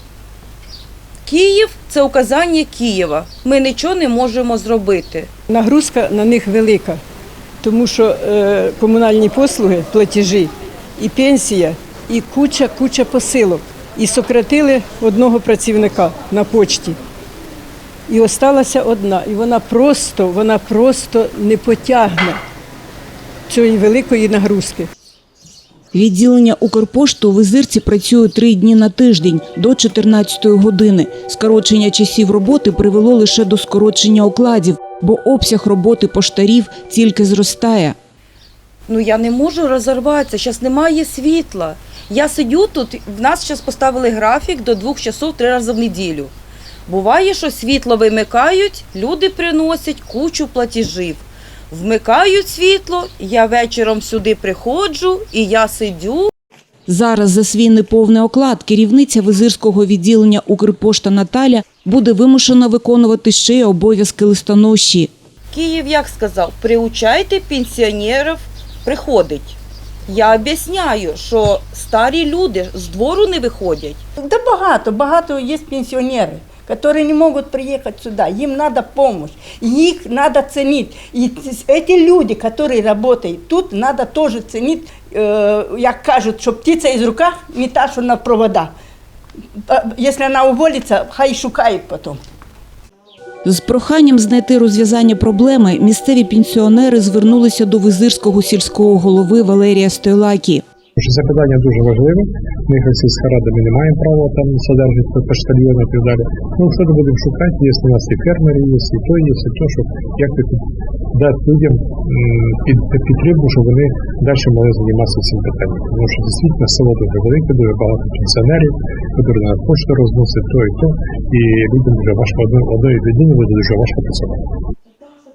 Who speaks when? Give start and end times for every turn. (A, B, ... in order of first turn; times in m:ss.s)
0:01.2-0:05.3 A
0:05.5-0:07.0 B
0:07.6-0:17.0 B
0:18.1-0:22.4 B
0:23.5-0:24.9 B
0:25.9-0:38.0 C
0:38.9-0:46.3 A
0:46.9-0:56.3 A
0:56.9-1:05.1 C
1:05.5-1:09.6 A
1:10.1-1:14.0 A
1:14.2-1:28.7 D
1:29.7-1:32.2 D
1:33.4-1:40.6 C
1:41.0-1:50.6 E
1:51.1-2:04.4 E